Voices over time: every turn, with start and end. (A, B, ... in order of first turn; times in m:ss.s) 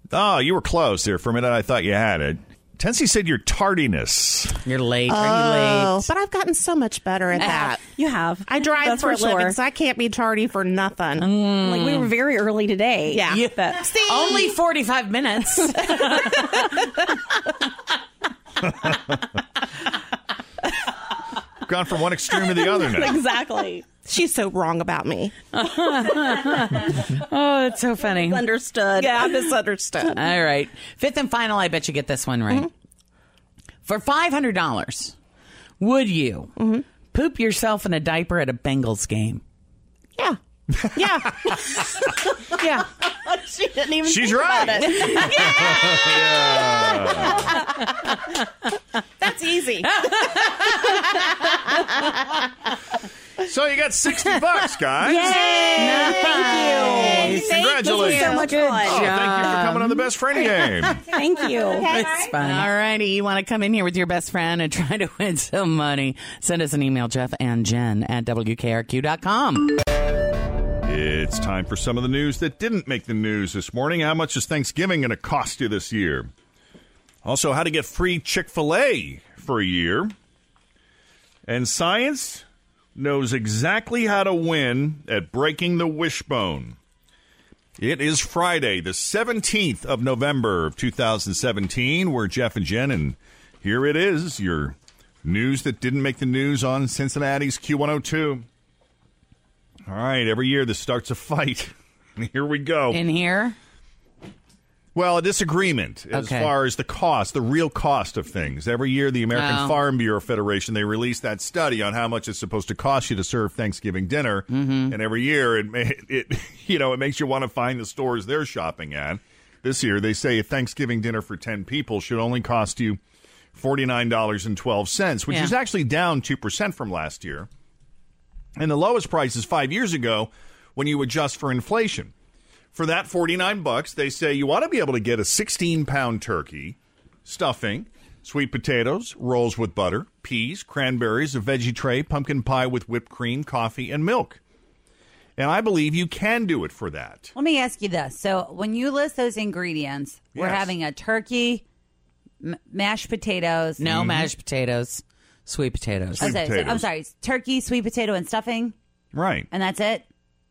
0:00.1-0:04.6 A
0:04.6-0:06.1 B
0:05.1-0:07.8 C
0:07.4-0:07.7 B
0:07.9-0:09.6 D
0:08.5-0:11.3 C
0:11.2-0:12.1 B
0:11.6-0:13.9 D
0:13.1-0:14.6 C
0:13.2-0:16.9 B
0:18.8-0:19.1 A
0:21.6-0:23.2 A
0:22.7-0:23.9 D
0:24.0-0:25.3 C
0:25.5-0:28.5 B
0:28.0-0:29.3 D
0:29.0-0:30.2 C
0:30.1-0:32.7 B
0:33.8-0:35.2 B
0:35.8-0:36.5 B
0:36.6-0:36.8 C
0:37.0-0:39.4 B
0:40.8-0:41.5 A
0:41.0-0:41.8 C
0:42.6-0:47.4 C
0:44.0-0:47.6 A
0:44.9-0:48.3 B
0:49.2-0:49.9 C
0:49.8-0:51.5 B
0:50.7-0:52.0 C
0:53.4-0:55.4 A
0:55.0-0:59.6 D
0:55.4-0:56.0 C
0:55.8-1:00.0 B
0:57.2-0:58.5 C
0:57.4-1:01.0 A
1:00.9-1:02.6 E
1:01.1-1:01.9 D
1:01.9-1:09.8 B
1:02.0-1:02.6 C
1:10.8-1:16.3 A
1:17.2-1:20.1 A
1:21.5-1:22.4 A
1:23.0-1:26.8 A
1:27.8-1:38.4 A
1:39.9-1:43.0 A
1:42.9-1:43.6 B
1:45.0-2:03.0 A
1:46.1-1:46.5 B
1:49.3-1:49.8 B
1:54.5-1:55.0 B
2:03.6-2:07.5 A
2:05.3-2:05.5 B
2:08.6-2:12.1 A
2:12.7-2:24.4 A
2:25.4-2:27.3 A
2:27.4-2:31.6 E
2:30.4-2:30.8 A
2:32.4-2:33.9 E
2:33.8-2:36.4 B
2:33.9-2:34.3 A
2:36.2-2:36.9 A
2:36.2-2:38.8 E
2:39.1-2:39.5 A
2:39.5-2:40.1 E